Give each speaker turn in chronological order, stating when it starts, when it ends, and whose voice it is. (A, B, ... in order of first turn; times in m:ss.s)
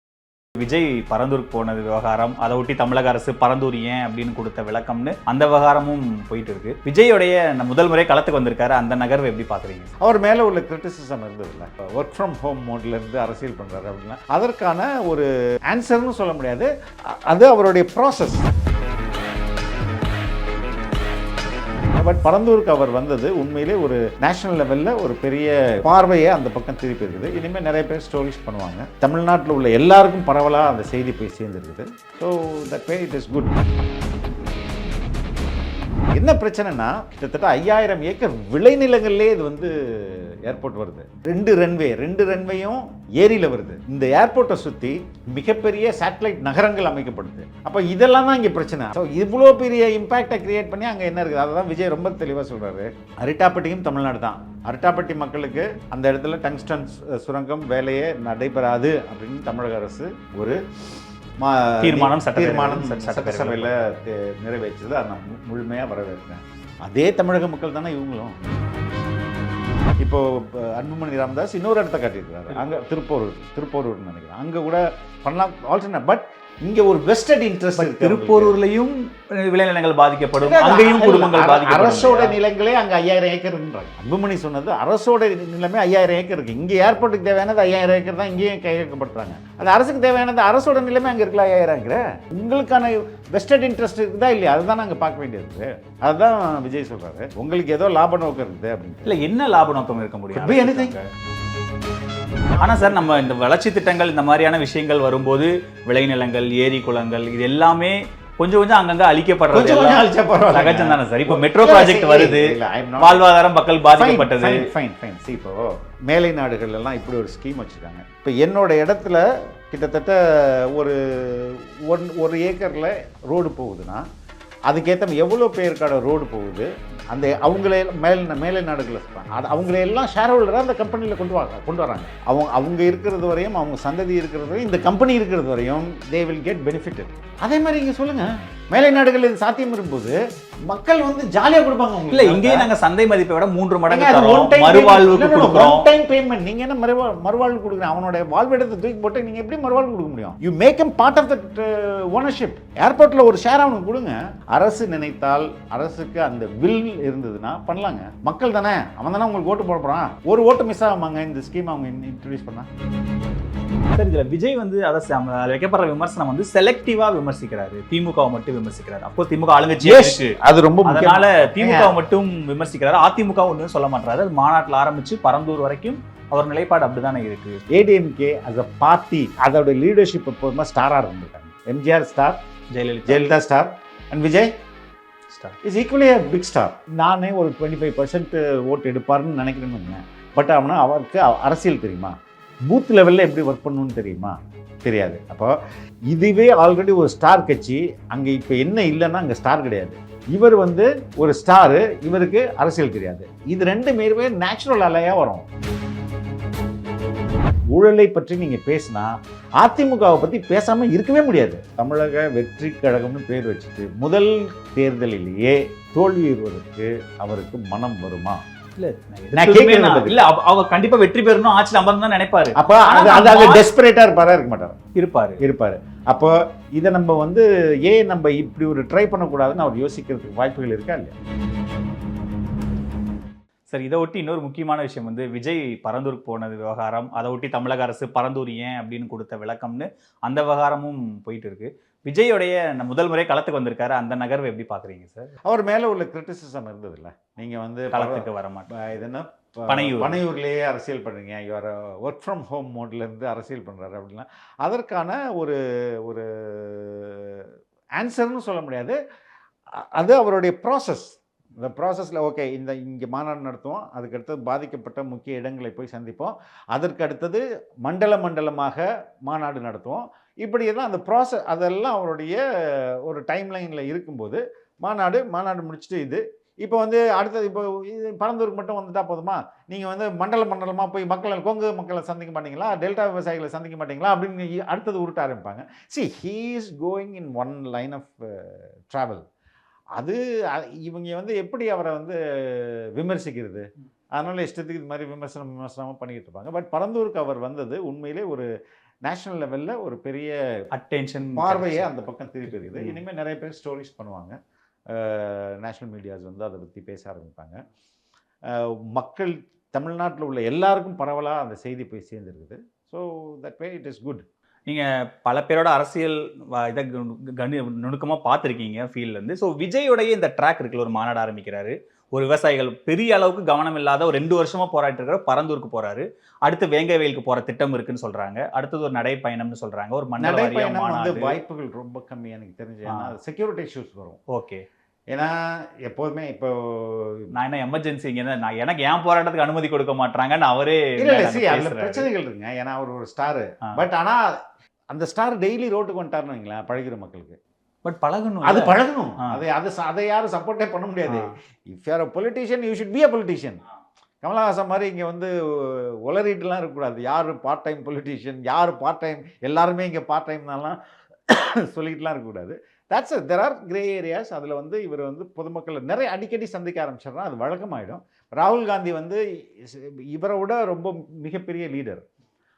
0:00.6-0:09.9 A
0:10.0-0:18.4 B
0:21.9-0:33.6 B
0:36.1-1:00.6 B
1:01.4-1:08.4 B
1:01.8-1:03.9 A
1:10.0-1:18.6 B
1:17.8-1:22.4 A
1:20.4-1:39.2 B
1:39.0-1:41.0 A
1:40.3-1:41.0 B
1:42.5-1:43.3 B
1:42.6-1:54.7 A
1:49.5-1:53.3 B
1:53.8-2:04.0 B
2:04.7-2:20.2 B
2:20.7-2:22.7 B
2:22.1-2:25.9 A
2:23.9-2:42.7 B
2:43.9-2:57.6 A
2:49.8-2:51.9 B
2:57.7-3:02.4 B
3:02.7-3:03.3 A
3:03.0-3:04.5 B
3:05.3-3:05.6 A
3:05.6-3:12.1 B
3:12.7-3:15.5 B
3:16.1-3:25.4 B
3:27.7-3:38.4 B
3:38.8-3:43.7 A
3:39.3-3:40.2 B
3:42.6-3:44.8 B
3:44.9-3:45.4 A
3:45.4-3:51.1 B
3:53.7-4:05.3 A
4:05.4-4:19.0 B
4:07.9-4:08.7 A
4:09.7-4:10.2 A
4:19.8-4:49.2 B
4:50.0-4:58.5 B
4:59.0-5:00.4 B
5:00.7-5:01.9 A
5:01.4-5:04.4 B
5:02.4-5:03.0 A
5:04.9-5:07.6 B
5:08.5-5:14.2 B
5:14.7-5:31.4 A
5:30.2-5:34.2 B
5:32.8-5:33.1 A
5:34.3-5:34.6 A
5:35.1-5:37.3 B
5:37.3-5:42.1 A
5:41.0-5:44.3 B
5:44.9-5:47.4 B
5:47.8-5:49.4 A
5:48.4-5:53.6 B
5:51.1-5:51.3 A
5:54.2-6:00.8 B
6:01.3-6:12.0 B